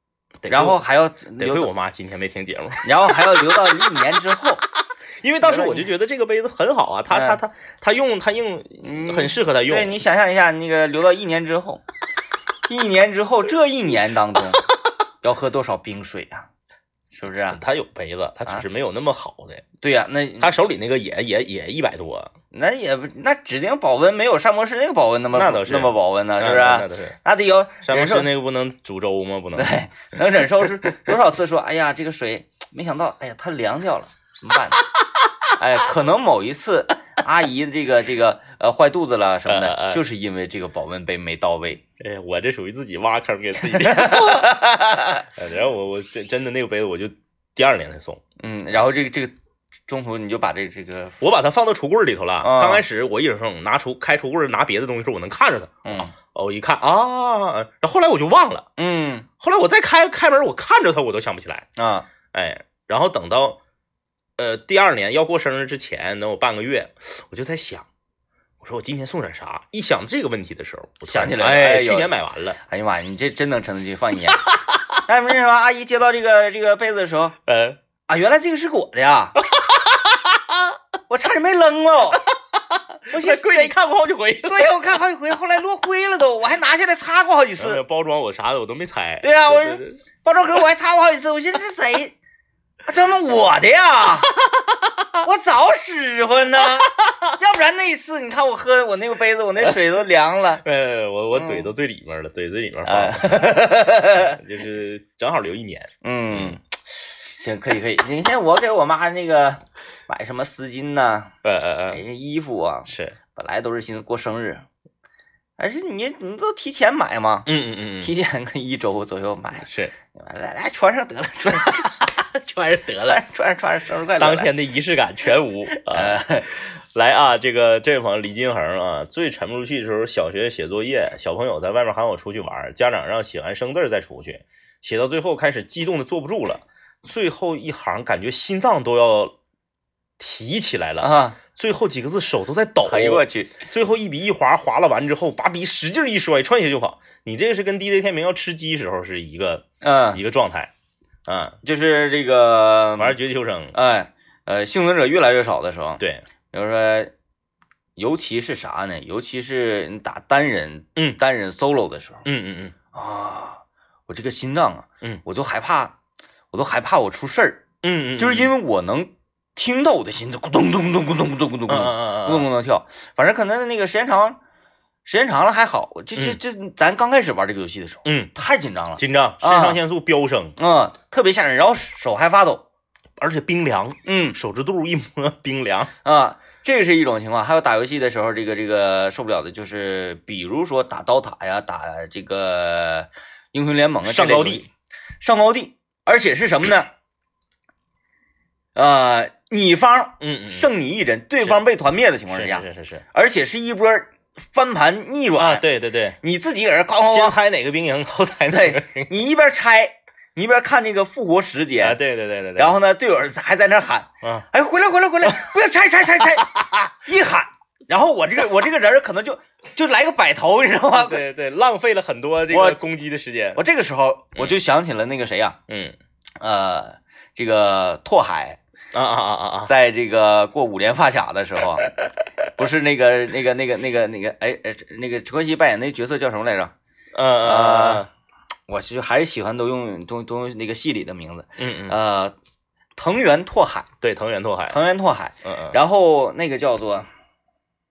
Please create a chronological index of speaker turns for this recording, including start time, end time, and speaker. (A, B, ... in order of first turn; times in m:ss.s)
0:00.4-0:00.8 A
0:00.5-0:01.7 B
0:01.4-0:04.0 A
0:02.8-0:04.6 B
0:05.2-0:09.9 A
0:05.4-0:05.9 B
0:07.1-0:07.4 B
0:08.8-0:11.8 B
0:12.7-0:14.7 B
0:15.2-0:16.5 B
0:17.1-0:17.6 B
0:17.5-0:19.6 A
0:19.8-0:20.6 B
0:20.4-0:22.3 A
0:22.5-0:28.3 B
0:25.3-0:27.2 A
0:27.8-0:29.7 A
0:29.6-0:34.9 B
0:30.7-0:30.9 A
0:35.6-0:41.8 B
0:39.5-0:40.0 A
0:42.0-0:44.6 A
0:43.7-0:45.2 B
0:45.4-0:48.2 A
0:48.4-0:49.3 B
0:49.9-0:51.2 B
0:51.2-0:58.7 A
0:52.4-0:52.8 B
0:55.9-0:56.1 B
0:58.8-0:59.3 B
0:59.4-1:01.7 A
1:01.8-1:02.1 B
1:02.3-1:03.6 A
1:04.4-1:07.9 A
1:08.6-1:12.6 A
1:11.1-1:14.5 B
1:14.3-1:14.8 A
1:15.1-1:17.4 B
1:17.5-1:17.8 A
1:18.1-1:19.4 B
1:19.4-1:20.8 A
1:21.1-1:22.3 B
1:22.3-1:24.8 A
1:23.1-1:23.7 B
1:24.5-1:27.8 B
1:27.6-1:30.0 A
1:29.2-1:32.2 B
1:32.9-1:34.3 B
1:34.7-1:35.1 A
1:35.2-1:40.6 B
1:36.7-1:37.2 A
1:40.6-1:46.6 A
1:41.3-1:41.7 B
1:42.8-1:44.4 B
1:46.0-1:46.6 B
1:47.4-1:51.3 B
1:51.4-1:52.0 A
1:51.9-1:54.6 B
1:52.9-1:53.2 A
1:55.6-2:01.9 B
1:57.5-1:58.1 A
1:59.7-1:59.9 A
2:01.6-2:03.2 A
2:03.0-2:04.5 B
2:04.2-2:19.4 A
2:05.7-2:06.5 B
2:20.2-2:30.7 A
2:21.0-2:21.4 B
2:22.9-2:23.6 B
2:29.8-2:30.2 B
2:31.3-2:31.6 A
2:31.6-2:33.2 B
2:33.0-2:33.8 A
2:33.7-2:37.1 B
2:38.0-2:42.3 B
2:42.2-2:42.7 A
2:42.9-2:46.0 B
2:46.5-2:47.6 B
2:47.8-2:48.5 A
2:48.2-2:54.4 B
2:51.7-2:52.5 A
2:55.0-2:59.8 B
2:58.0-2:58.3 A
2:59.0-3:00.6 A
3:00.6-3:02.6 B
3:03.2-3:05.9 A
3:04.0-3:04.4 B
3:06.0-3:14.7 B
3:14.0-3:14.6 A
3:15.2-3:16.9 B
3:18.8-3:25.6 B
3:20.2-3:20.7 A
3:22.3-3:23.0 A
3:25.4-3:26.2 A
3:26.2-3:27.4 B
3:27.0-3:29.1 A
3:28.5-3:32.0 B
3:31.8-3:32.8 A
3:32.6-3:41.2 B
3:36.3-3:36.9 A
3:40.9-3:43.6 A
3:42.5-3:42.8 B
3:43.6-3:45.6 B
3:45.7-3:46.0 A
3:46.4-3:48.6 B
3:48.9-3:49.7 A
3:49.7-3:51.9 B
3:52.6-3:56.7 B
3:57.1-3:58.1 A
3:57.4-3:58.1 B
3:58.7-4:02.3 B
4:01.6-4:02.0 A
4:03.0-4:03.9 B
4:04.0-4:04.8 A
4:04.7-4:07.1 B
4:05.4-4:05.8 A